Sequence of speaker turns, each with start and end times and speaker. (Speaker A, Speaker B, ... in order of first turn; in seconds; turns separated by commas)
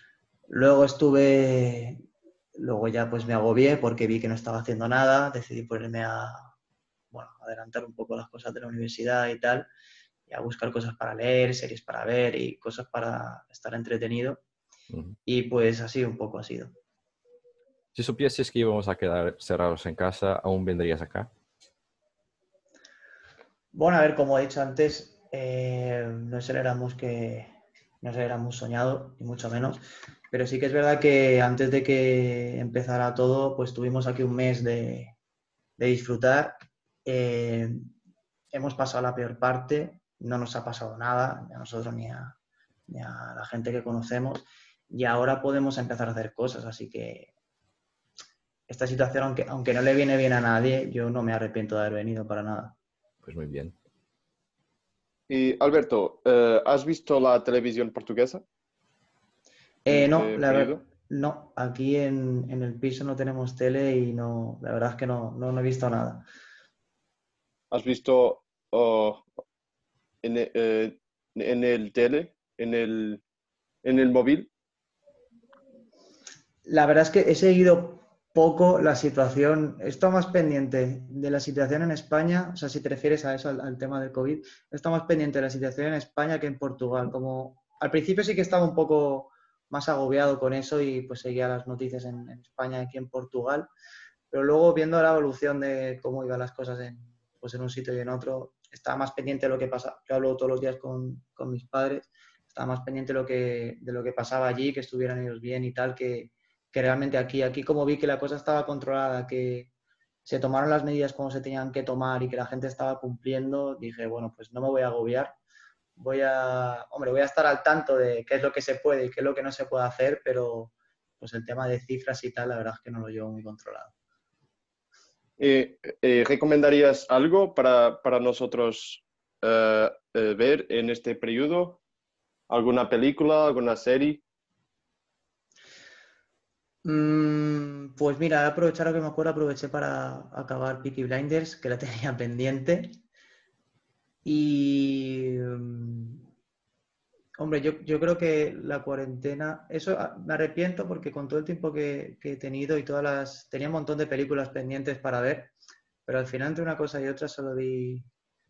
Speaker A: 0.5-2.0, Speaker A: 2.5-6.5, Speaker A: 7.1-9.7, Speaker A: 10.3-14.4, Speaker B: 14.9-15.2, Speaker A: 15.2-16.7, Speaker B: 17.9-21.3, Speaker A: 23.7-29.8, Speaker A: 30.3-35.1, Speaker A: 35.8-37.8, Speaker A: 38.5-42.4, Speaker A: 42.9-47.3, Speaker A: 48.7-52.8, Speaker B: 53.2-53.7, Speaker C: 55.3-58.4, Speaker A: 59.8-66.3, Speaker C: 59.9-60.8, Speaker C: 67.7-69.2, Speaker C: 70.2-73.2, Speaker C: 73.8-74.5, Speaker A: 76.7-93.7, Speaker A: 94.3-109.7, Speaker A: 110.2-115.4, Speaker A: 116.0-123.9, Speaker C: 125.4-131.8, Speaker C: 132.5-134.2, Speaker A: 136.8-143.0, Speaker A: 144.2-146.2, Speaker A: 147.4-155.5, Speaker A: 156.1-158.1